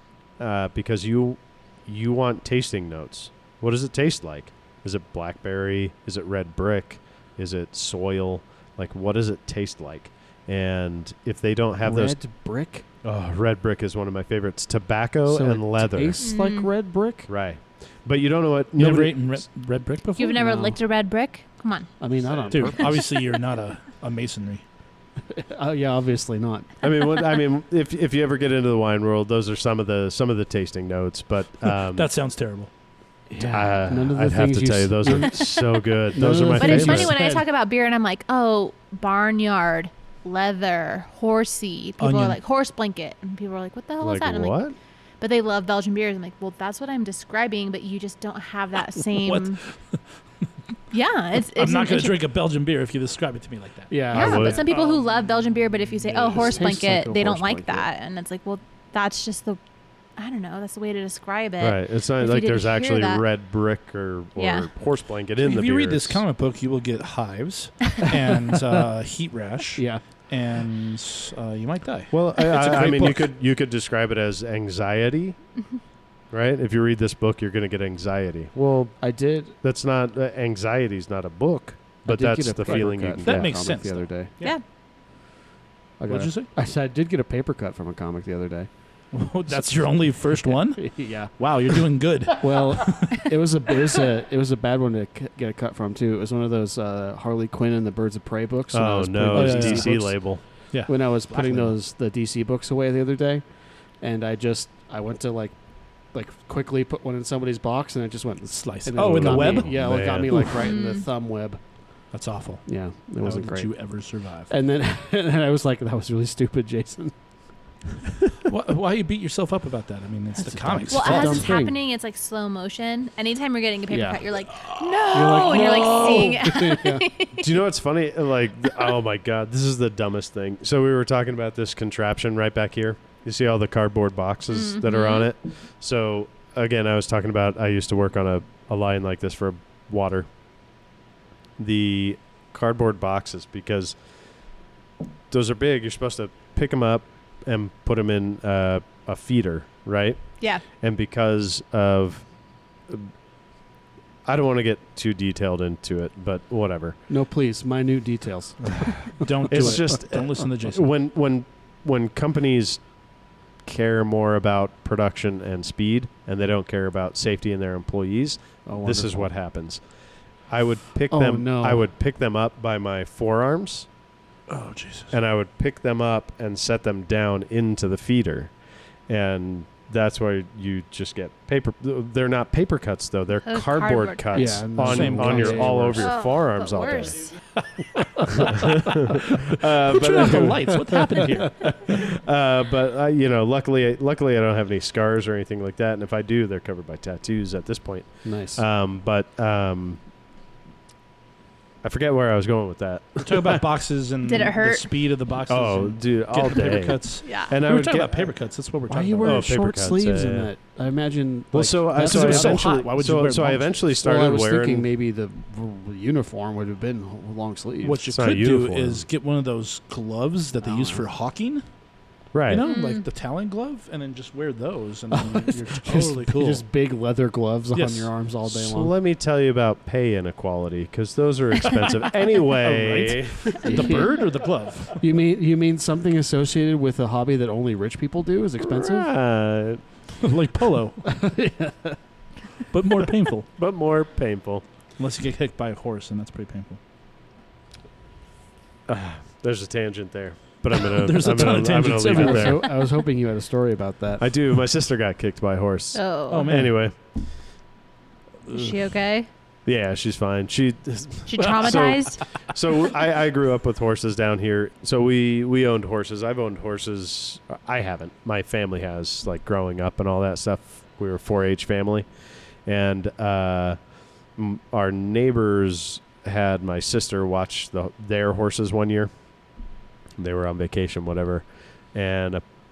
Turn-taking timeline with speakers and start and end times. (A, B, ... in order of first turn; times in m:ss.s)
0:00.4-0:12.2 A
0:11.8-0:12.8 B
0:13.0-0:16.2 A
0:15.2-0:17.3 B
0:16.2-0:16.7 C
0:17.3-0:19.4 A
0:18.7-0:20.4 D
0:20.2-0:21.9 C
0:20.4-0:20.8 B
0:22.0-0:23.2 B
0:22.5-0:24.6 D
0:25.3-0:26.7 B
0:26.8-0:32.1 A
0:31.6-0:32.7 D
0:33.3-0:37.4 B
0:33.4-0:37.1 A
0:36.6-0:44.6 C
0:42.0-0:42.4 D
0:44.0-0:44.7 A
0:45.2-0:49.6 C
0:49.1-0:50.4 D
0:50.9-0:52.2 C
0:51.3-0:55.2 D
0:53.9-0:54.7 B
0:54.1-0:59.6 C
0:54.1-0:54.6 A
0:56.0-0:56.7 D
0:56.2-0:57.8 B
1:00.2-1:03.2 C
1:01.6-1:06.2 A
1:04.4-1:04.7 C
1:05.4-1:13.3 D
1:08.3-1:08.8 B
1:09.8-1:10.0 B
1:12.1-1:15.4 A
1:16.3-1:19.1 A
1:19.0-1:19.6 B
1:19.6-1:23.7 A
1:22.0-1:24.3 B
1:22.6-1:24.6 D
1:26.0-1:28.7 B
1:26.1-1:26.5 D
1:29.1-1:33.2 D
1:29.5-1:52.0 B
1:38.7-1:40.4 A
1:39.3-1:40.2 D
1:40.7-1:41.8 D
1:48.6-1:50.6 D
1:49.0-1:50.4 A
1:50.6-1:51.0 C
1:52.1-1:54.5 D
1:52.6-1:57.1 B
1:58.4-2:01.5 D
2:00.4-2:01.8 B
2:00.9-2:07.5 C
2:03.9-2:04.3 B
2:04.7-2:06.3 D
2:05.1-2:07.1 B
2:07.4-2:20.3 A
2:14.5-2:15.3 C
2:21.6-2:24.0 A
2:25.3-2:32.3 A
2:34.2-2:37.0 A
2:37.1-2:40.0 B
2:39.1-2:40.9 D
2:39.5-2:42.9 A
2:43.6-2:49.8 A
2:48.6-2:49.3 B
2:50.5-2:53.9 A
2:51.1-2:51.9 B
2:54.5-2:55.2 D
2:55.1-2:58.5 A
2:59.1-3:07.5 A
3:03.4-3:04.6 C
3:04.3-3:06.1 B
3:04.8-3:06.0 D
3:06.0-3:07.3 C
3:07.9-3:12.1 D
3:08.4-3:11.0 A
3:10.6-3:11.4 B
3:11.6-3:20.0 A
3:18.2-3:18.6 B
3:21.8-3:23.6 A
3:23.2-3:29.5 D
3:24.2-3:24.9 C
3:25.5-3:28.3 A
3:27.2-3:27.5 C
3:28.9-3:32.8 B
3:29.2-3:30.5 A
3:31.5-3:34.9 A
3:32.0-3:33.8 D
3:34.0-3:38.1 B
3:37.8-3:41.6 D
3:38.1-3:39.0 A
3:40.6-3:41.1 B
3:42.3-3:42.6 A
3:42.4-3:46.6 D
3:42.6-3:43.0 C
3:45.1-3:48.9 B
3:47.7-3:48.1 D
3:48.5-3:54.0 A
3:51.6-3:55.0 D
3:53.6-3:54.4 B
3:54.9-3:59.1 B
3:58.6-3:59.9 A
4:00.2-4:01.1 D
4:01.0-4:02.0 B
4:02.7-4:03.5 D
4:03.6-4:04.6 A
4:05.0-4:06.8 D
4:08.9-4:12.7 A
4:10.7-4:12.7 D
4:11.6-4:14.3 B
4:14.2-4:17.1 A
4:15.9-4:16.5 C
4:16.3-4:16.8 D
4:18.5-4:19.3 C
4:19.6-4:32.1 A
4:21.3-4:22.2 C
4:21.4-4:21.8 D
4:32.6-4:33.8 A
4:34.4-4:39.1 A
4:40.2-4:42.4 A